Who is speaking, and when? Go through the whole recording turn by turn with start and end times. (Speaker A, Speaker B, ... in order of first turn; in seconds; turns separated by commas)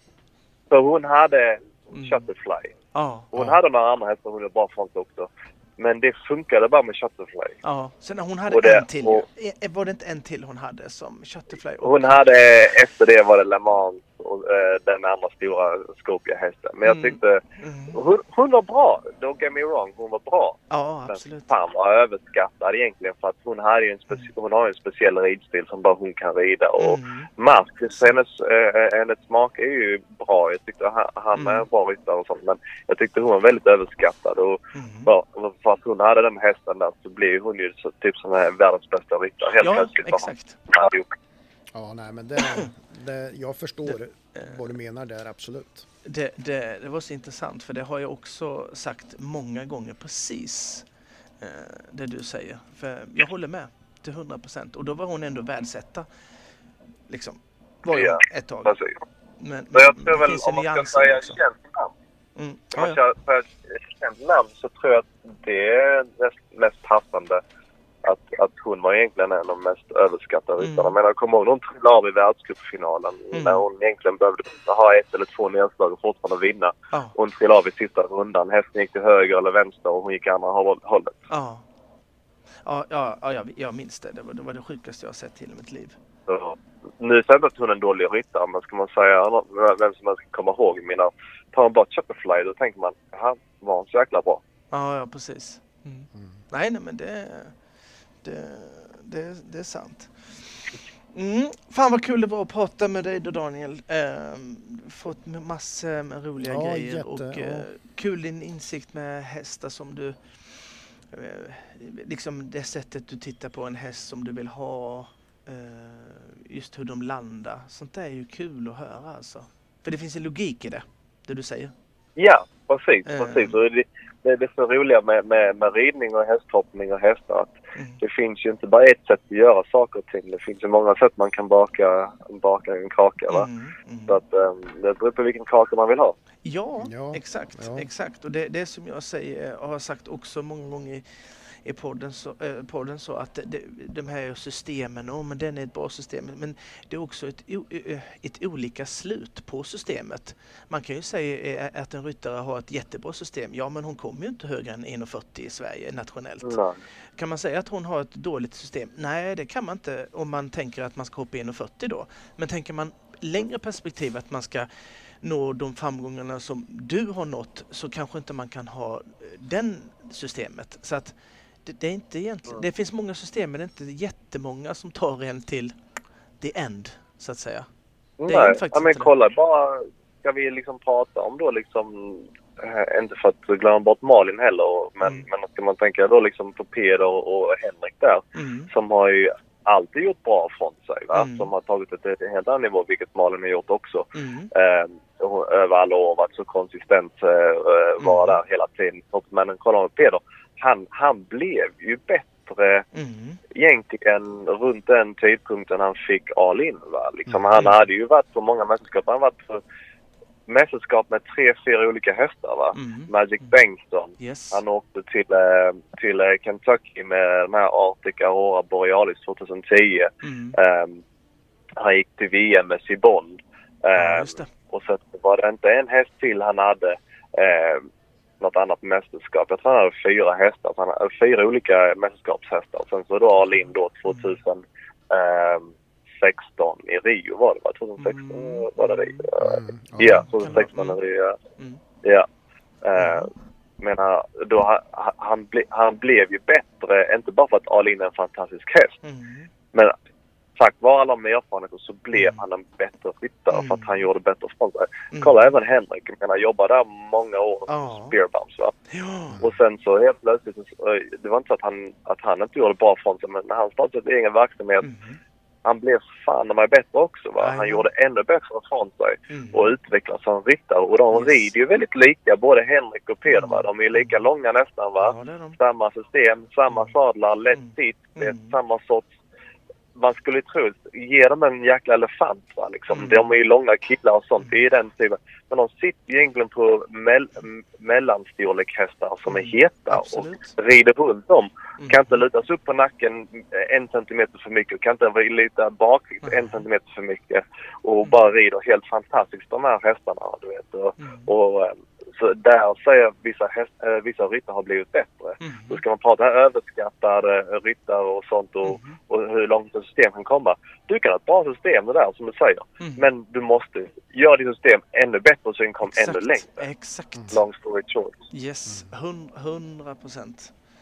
Speaker A: 0.7-2.7, Speaker B: 1.9-2.2, Speaker B: 2.9-3.3, Speaker A: 3.3-7.6, Speaker C: 3.4-3.6, Speaker B: 7.6-12.2, Speaker A: 8.5-9.2, Speaker A: 11.8-41.1, Speaker B: 16.8-18.0, Speaker B: 20.7-21.5, Speaker B: 26.8-27.3, Speaker B: 31.3-31.6, Speaker B: 34.7-35.1, Speaker B: 39.6-40.6, Speaker C: 41.7-45.9, Speaker B: 46.0-50.9, Speaker B: 51.4-56.1, Speaker B: 57.1-58.7, Speaker A: 57.9-58.9, Speaker B: 59.4-61.4, Speaker A: 59.7-61.9, Speaker B: 62.4-63.0, Speaker A: 62.8-67.4, Speaker A: 68.0-81.2, Speaker B: 70.6-71.0, Speaker B: 73.3-73.7, Speaker B: 81.3-81.6, Speaker B: 82.6-86.0, Speaker A: 86.3-94.4, Speaker B: 94.7-97.6, Speaker B: 98.2-121.7, Speaker C: 106.5-107.7, Speaker A: 122.2-133.5, Speaker B: 123.1-123.6, Speaker B: 133.3-134.2, Speaker A: 134.1-136.2, Speaker B: 136.4-156.6, Speaker C: 136.8-137.9, Speaker A: 156.4-156.8, Speaker B: 157.2-175.8, Speaker B: 176.4-177.7, Speaker A: 178.2-202.9, Speaker B: 178.3-179.1, Speaker B: 188.3-188.7, Speaker B: 191.1-191.5, Speaker B: 194.2-194.5, Speaker B: 198.0-198.4, Speaker B: 202.9-203.4, Speaker A: 203.5-209.6, Speaker A: 210.5-221.0, Speaker B: 212.7-213.6, Speaker B: 214.2-214.6, Speaker B: 220.2-220.6, Speaker A: 221.8-227.9, Speaker B: 224.0-224.5, Speaker A: 228.4-241.4, Speaker B: 234.1-234.4, Speaker B: 238.0-239.3, Speaker C: 239.4-240.3, Speaker B: 240.1-241.0, Speaker A: 242.8-249.0, Speaker B: 243.0-243.3, Speaker B: 249.0-249.5, Speaker A: 250.6-258.8, Speaker B: 252.1-252.4, Speaker B: 253.5-254.0, Speaker B: 255.1-255.5, Speaker B: 257.7-258.1, Speaker B: 258.9-259.4, Speaker A: 259.4-264.9, Speaker B: 264.8-265.2, Speaker A: 265.6-279.1, Speaker B: 267.4-267.9, Speaker B: 269.3-269.7, Speaker B: 271.1-271.4, Speaker B: 273.3-274.2, Speaker B: 275.0-275.6, Speaker B: 277.5-278.6, Speaker A: 279.9-316.6, Speaker B: 282.9-283.3, Speaker B: 289.3-290.6, Speaker B: 291.8-292.2, Speaker B: 296.2-296.6, Speaker B: 301.0-301.3, Speaker B: 305.4-305.8, Speaker B: 308.6-309.0, Speaker B: 312.8-313.1, Speaker B: 315.8-317.4, Speaker A: 317.3-318.2, Speaker B: 318.3-320.5